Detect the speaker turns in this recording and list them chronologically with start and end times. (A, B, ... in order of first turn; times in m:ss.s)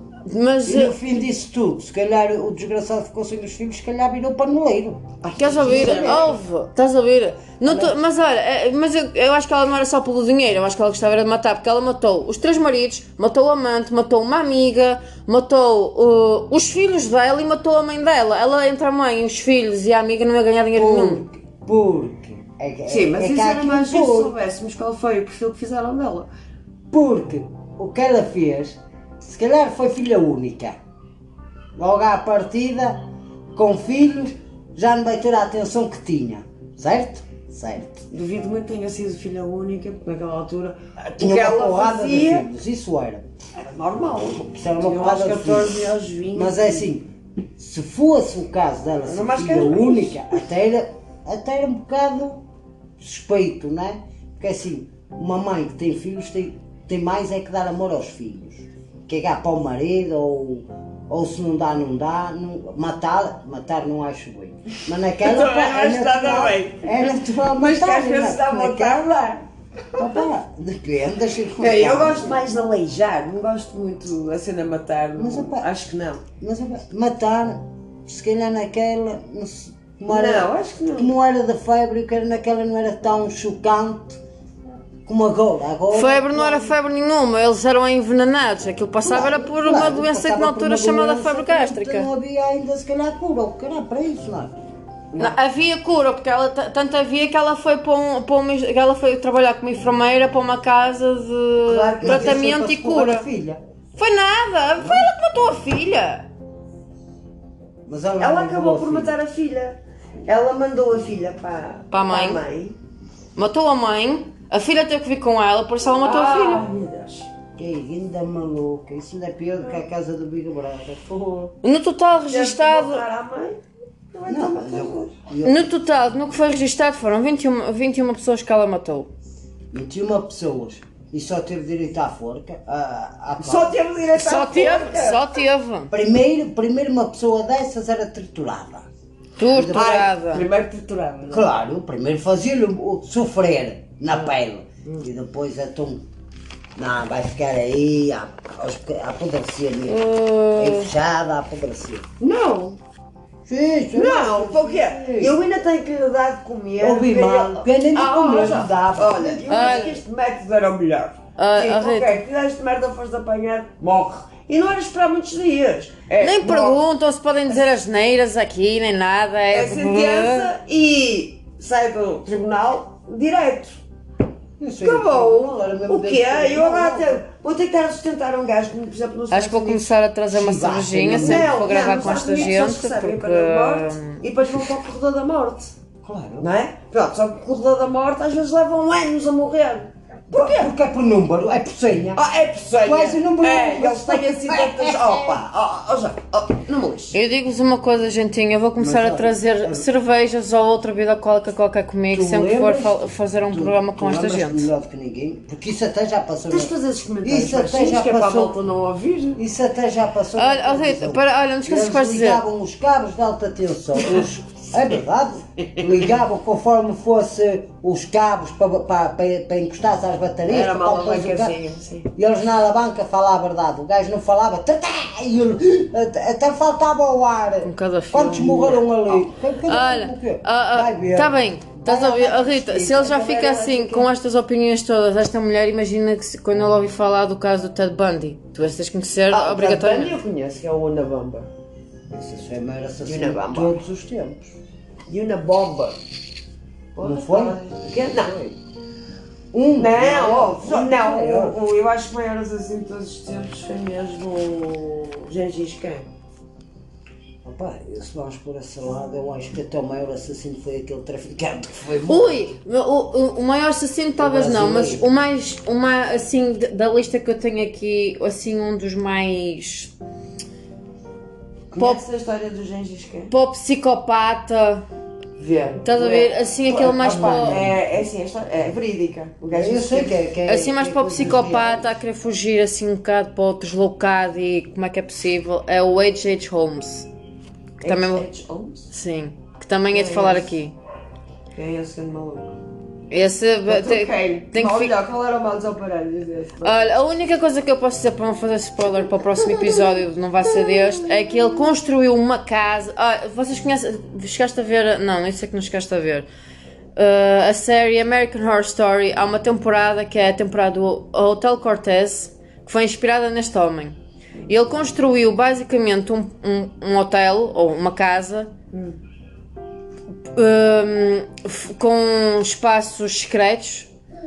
0:00.3-0:01.0 A
0:00.6-0:06.3 B
0:05.2-0:06.4 C
0:05.4-0:21.3 A
0:07.6-0:08.0 B
0:20.7-0:24.4 B
0:22.9-0:26.3 C
0:26.9-0:30.8 B
0:31.8-0:38.0 B
0:38.1-0:42.5 C
0:41.2-0:43.3 B
0:43.6-0:46.9 C
0:44.5-0:45.8 B
0:46.4-0:52.4 B
0:49.0-0:50.3 C
0:53.0-1:09.1 B
1:05.2-1:09.4 C
1:10.0-1:12.4 B
1:11.6-1:16.2 C
1:15.2-1:15.7 B
1:16.4-1:24.2 B
1:20.1-1:21.1 C
1:25.1-1:26.7 B
1:25.9-1:32.1 A
1:29.0-1:34.6 B
1:35.2-1:43.3 A
1:41.6-1:42.5 C
1:42.0-1:43.6 B
1:44.0-1:46.3 A
1:44.8-1:45.1 B
1:47.9-1:49.1 B
1:48.2-1:52.8 C
1:51.9-1:52.4 A
1:53.4-1:56.6 A
1:56.0-1:57.3 C
1:57.6-2:01.1 B
2:01.1-2:01.5 C
2:01.6-2:03.1 A
2:02.3-2:05.1 C
2:04.3-2:05.7 B
2:05.4-2:09.1 A
2:09.7-2:13.8 B
2:13.4-2:15.4 C
2:14.1-2:15.9 A
2:15.9-2:18.9 B
2:19.4-2:20.5 A
2:19.5-2:20.0 B
2:19.7-2:21.5 C
2:21.3-2:26.0 B
2:26.8-2:32.1 B
2:29.9-2:30.9 A
2:32.2-2:32.8 C
2:33.5-2:35.4 B
2:33.9-2:46.8 C
2:36.8-2:40.0 B
2:39.5-2:40.0 A
2:41.4-2:42.2 A
2:46.2-2:50.5 A
2:49.5-2:53.8 C
2:54.6-2:57.2 B
2:54.8-2:59.9 C
2:59.3-3:04.2 A
3:00.3-3:02.0 B
3:01.1-3:05.7 C
3:06.0-3:06.5 B
3:06.4-3:10.7 C
3:10.3-3:12.2 B
3:12.1-3:17.2 C
3:12.8-3:15.3 B
3:17.1-3:24.7 A
3:18.8-3:19.9 B
3:22.1-3:28.6 B
3:26.5-3:29.4 C
3:29.4-3:41.6 B
3:30.4-3:32.4 A
3:40.5-3:42.1 C
3:42.2-3:53.3 B
3:47.6-4:00.2 A
3:52.9-3:54.1 C
3:59.3-4:01.5 C
4:02.1-4:04.6 B
4:03.0-4:03.8 C
4:05.1-4:06.0 C
4:07.0-4:08.3 C
4:07.0-4:08.6 B
4:09.5-4:11.6 B
4:09.8-4:16.1 C
4:17.4-4:22.4 B
4:22.1-4:29.9 A
4:24.2-4:25.1 B
4:31.7-4:33.3 C
4:31.8-4:32.0 A
4:33.3-4:34.8 A
4:35.4-4:40.2 C
4:35.8-4:37.6 A
4:37.0-4:37.8 B
4:39.5-4:41.9 B
4:40.5-4:47.1 A
4:47.8-4:48.9 C
4:47.8-4:48.3 A
4:48.9-4:50.8 A
4:49.9-4:50.6 C
4:51.5-4:52.6 C
4:53.1-4:55.0 A
4:53.7-4:57.0 C
4:56.6-5:06.3 A
5:07.0-5:18.5 A
5:18.7-5:19.0 C
5:20.2-5:23.9 A